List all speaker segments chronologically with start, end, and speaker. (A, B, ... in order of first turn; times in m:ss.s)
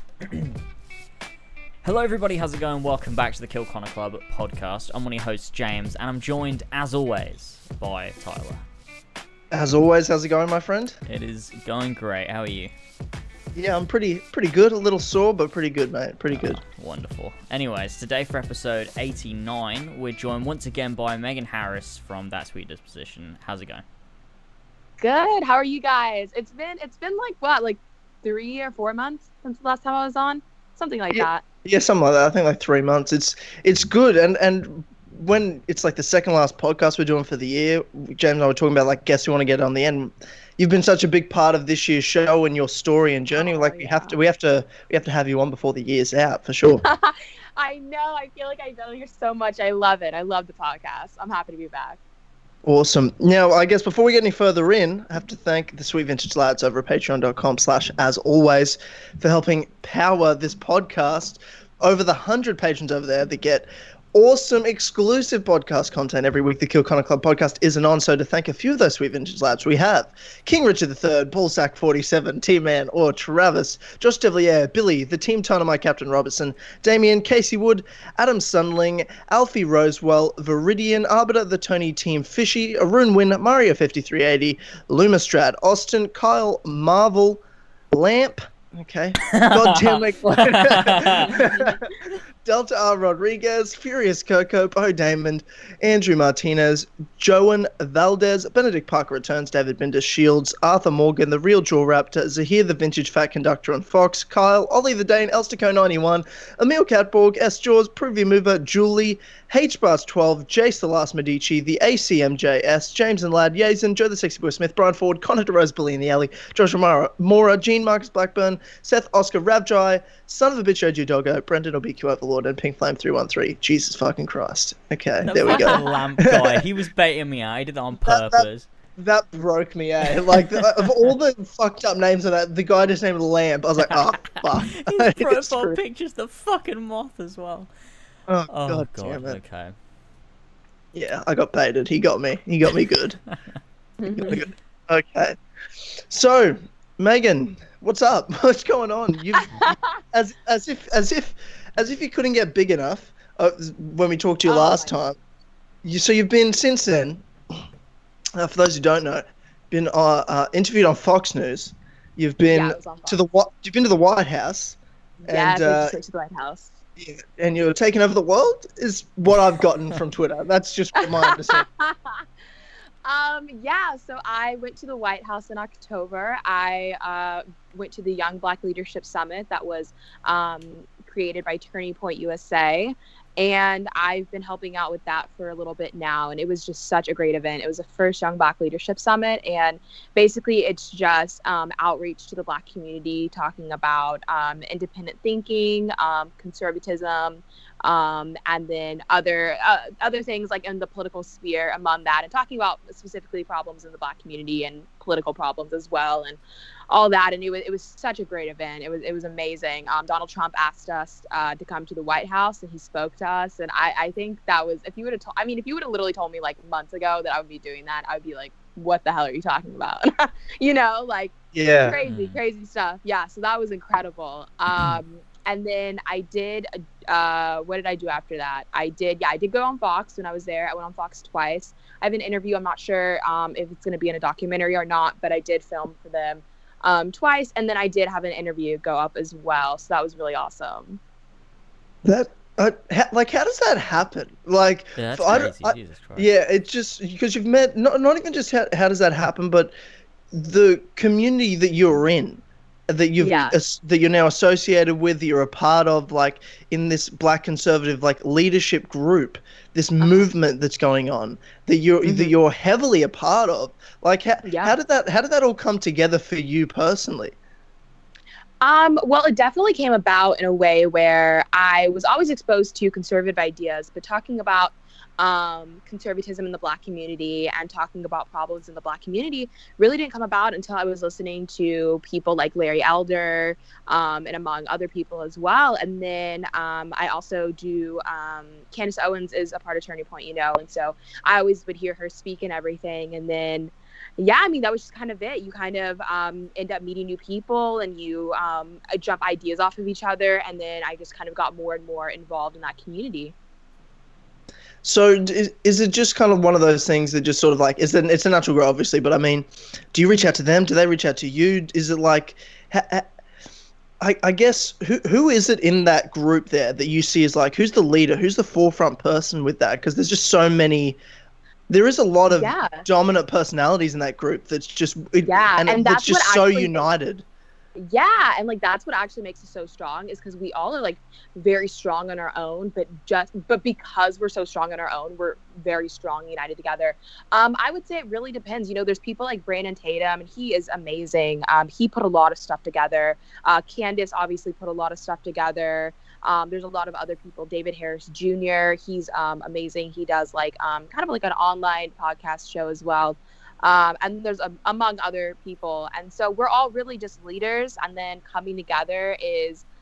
0:00.2-0:00.6 A
0:01.8-0:08.6 A
0:09.5-0:11.0 B
0:11.1-0:12.7 A
0:13.6-0:16.6 B
0:16.3-0:23.8 A
0:25.0-0:31.4 C
0:31.1-0:46.8 B
0:43.4-0:44.2 C
0:46.8-0:52.0 C
0:52.6-1:31.8 B
1:29.3-1:31.5 A
1:31.2-1:31.8 C
1:32.4-2:06.6 B
2:05.3-2:08.7 A
2:05.5-2:05.8 C
2:08.1-2:15.8 B
2:10.3-2:10.7 A
2:14.3-2:17.7 A
2:18.3-2:19.4 B
2:18.5-2:19.7 A
2:20.9-2:23.2 B
2:24.0-2:24.4 C
2:24.1-2:25.4 B
2:26.1-2:35.2 B
2:29.3-2:29.9 C
2:34.4-2:35.0 C
2:35.8-2:37.2 B
2:38.3-2:46.0 B
2:42.4-2:43.2 C
2:45.3-2:46.7 C
2:47.0-2:51.7 B
2:51.0-2:52.2 C
2:53.0-3:26.4 C
3:26.9-4:01.0 C
3:41.5-3:42.0 B
3:42.0-3:42.4 A
4:02.0-4:09.7 B
4:05.0-4:06.3 A
4:10.3-4:27.4 B
4:13.2-4:13.6 C
4:22.1-4:22.3 C
4:24.5-4:24.7 C
4:28.6-5:03.4 C
5:04.8-5:13.1 B
5:14.0-5:21.0 B
5:21.7-5:27.2 B
5:22.3-5:22.8 C
5:25.3-5:26.9 C
5:27.8-5:59.6 C